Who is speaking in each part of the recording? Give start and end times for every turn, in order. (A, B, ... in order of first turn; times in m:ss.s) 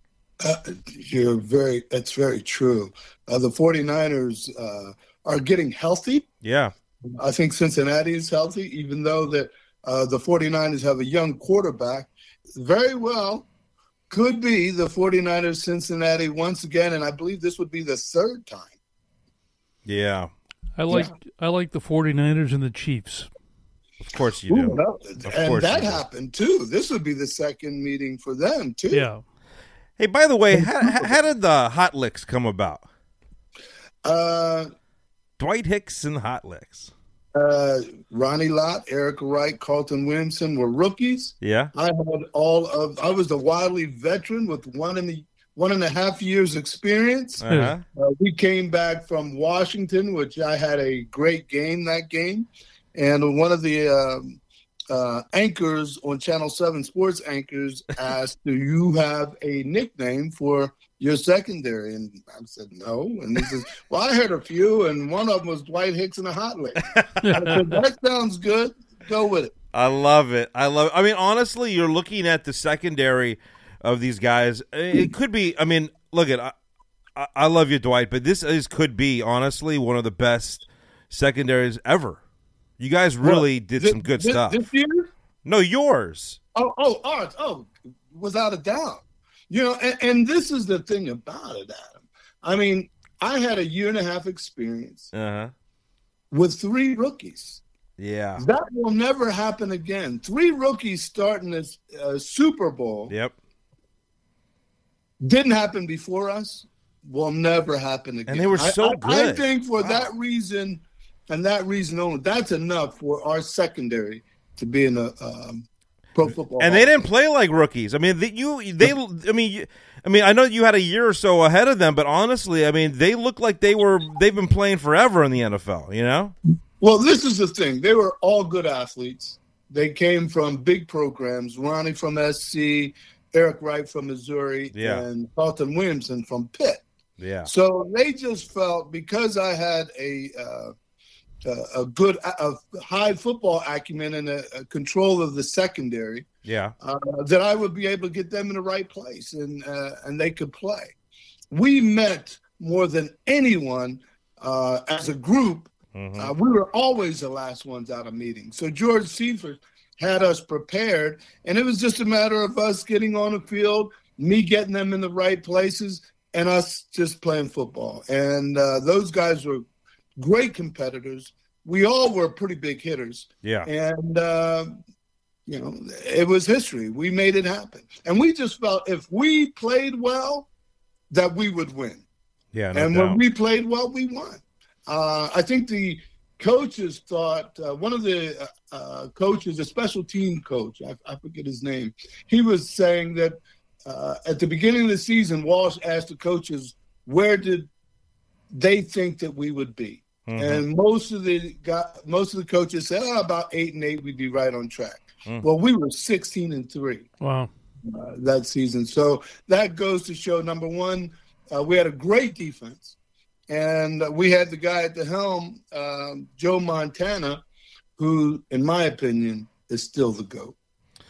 0:00.4-0:06.3 A
0:06.4-0:06.7 B
0:07.2-0:13.5 A
0:14.1-0:18.7 A
0:19.9-0:20.3 B
0:20.8-0:23.3 C
0:24.0-0:26.0 B
0:24.5-0:29.1 A
0:28.9-0:29.2 C
0:30.0-0:32.8 B
0:30.5-0:31.2 A
0:34.0-0:34.7 A
0:35.4-0:36.9 B
0:37.4-1:09.5 A
0:41.4-0:41.7 B
0:47.4-0:47.8 B
0:47.5-0:47.8 C
1:06.9-1:07.2 B
1:07.2-1:07.6 C
1:09.7-1:16.5 B
1:17.2-1:22.2 B
1:22.8-1:24.6 B
1:23.2-1:25.1 A
1:25.4-1:26.4 B
1:26.6-1:35.1 A
1:35.1-1:35.5 B
1:36.3-1:37.6 A
1:38.0-1:38.4 B
1:38.4-1:43.1 A
1:43.1-1:43.3 B
1:45.2-1:57.1 A
1:48.3-1:50.1 B
1:56.6-2:06.3 B
2:06.8-2:16.8 A
2:14.7-2:15.0 B
2:17.2-2:17.5 B
2:17.4-2:20.7 A
2:21.4-2:26.3 A
2:26.4-2:26.7 B
2:26.8-2:31.0 A
2:31.5-2:49.7 A
2:35.9-2:36.3 B
2:50.2-2:54.8 A
2:53.4-2:53.7 B
2:55.5-3:00.5 A
3:01.1-3:02.0 A
3:02.5-3:03.2 B
3:02.7-3:17.7 A
3:18.5-3:27.1 A
3:20.3-3:20.6 B
3:27.2-3:27.5 C
3:27.9-3:33.0 A
3:33.5-3:37.4 A
3:38.0-3:40.6 A